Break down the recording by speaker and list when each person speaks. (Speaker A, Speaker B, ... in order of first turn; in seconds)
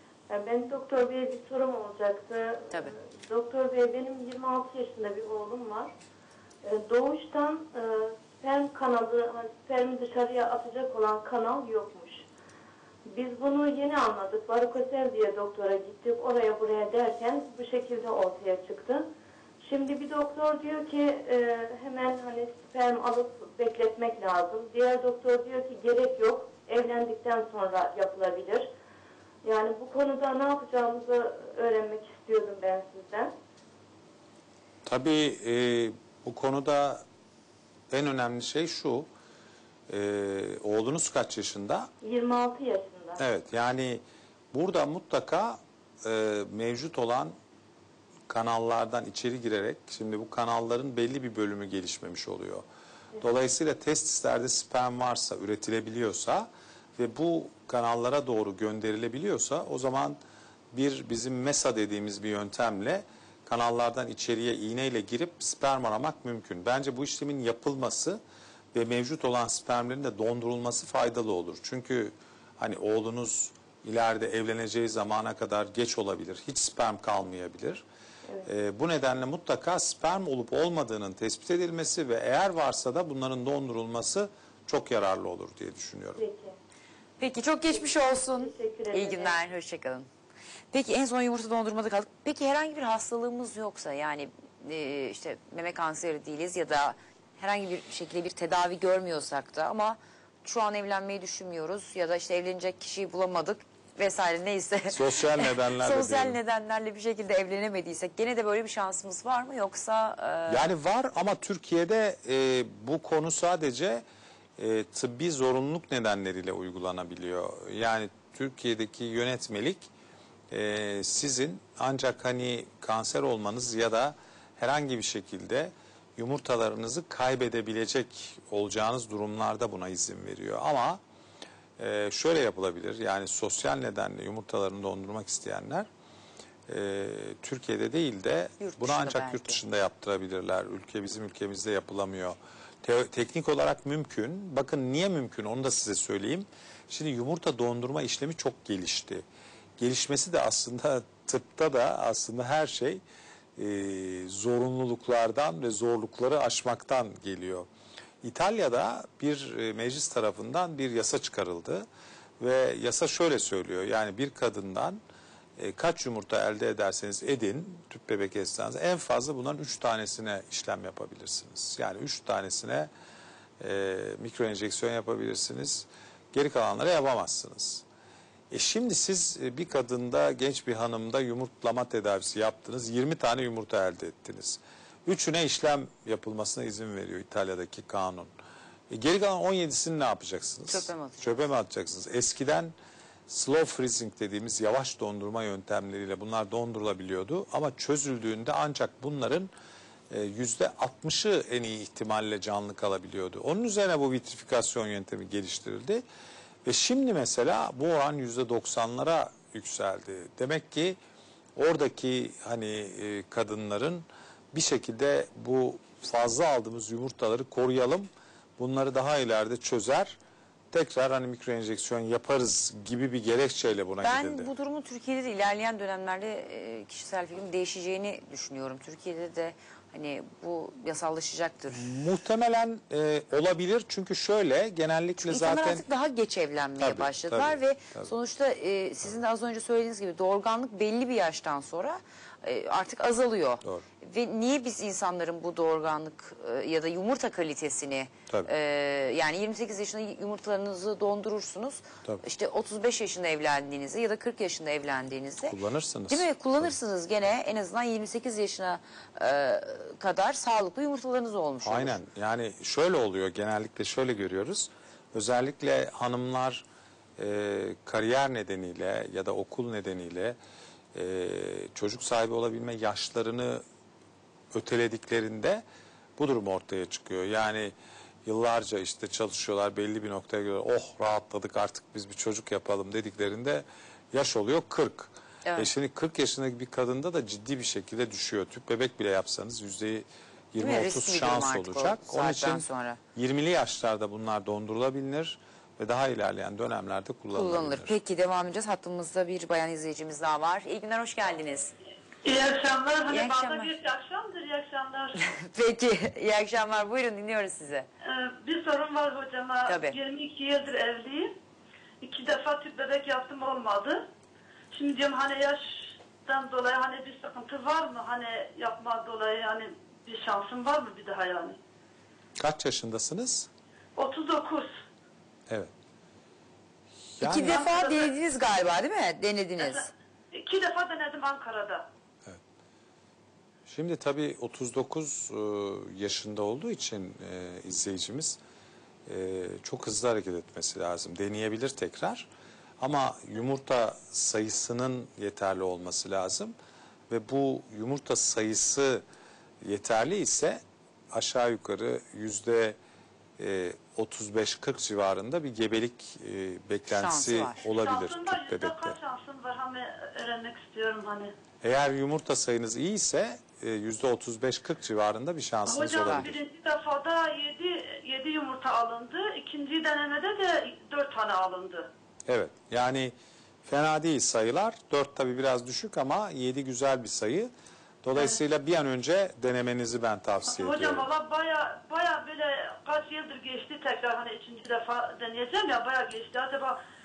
Speaker A: 0.3-5.9, 6.6-12.2, 13.1-19.1, 19.6-28.7, 29.4-33.3, 42.0-43.2, 86.2-86.6, 87.7-89.4
Speaker B: 34.9-37.0, 37.9-39.1, 39.9-41.9, 43.2-47.4, 48.3-52.6, 53.2-60.2, 60.7-68.2, 68.7-77.8, 78.5-86.2, 104.9-106.4, 110.5-114.0, 114.6-119.9, 120.5-131.0, 131.8-135.9, 136.7-149.2, 149.8-153.0, 153.6-157.7, 158.2-161.9, 162.4-165.0, 165.6-172.9, 173.6-177.8, 178.5-188.3, 188.9-192.7, 193.3-199.5, 200.1-206.0, 206.7-211.0, 211.6-220.2, 220.7-224.5, 231.7-235.8, 236.8-238.1, 255.5-256.7, 261.6-266.6, 267.2-270.4, 270.9-273.6, 274.5-275.6, 276.2-277.7, 278.3-298.0, 322.4-323.5, 327.2-327.7, 333.7-338.4, 339.1-342.3, 342.8-346.6, 347.1-349.0, 349.6-352.8, 353.4-359.0, 361.6-366.4, 372.3-373.1, 373.6-377.5, 378.0-381.1
Speaker C: 87.2-90.1, 90.7-110.7, 138.6-139.6, 190.7-191.5, 224.0-231.8, 235.2-255.6, 256.1-262.0, 285.4-285.7, 290.6-293.0, 297.3-301.7, 303.1-303.7, 305.2-307.9, 309.7-310.0, 327.2-329.9, 356.9-357.6, 366.0-366.3
Speaker D: 302.2-305.2, 308.0-311.3, 312.0-314.0, 314.7-321.6, 324.0-324.7, 327.4-328.1, 329.6-331.9, 357.6-361.3, 365.7-371.9, 380.5-386.8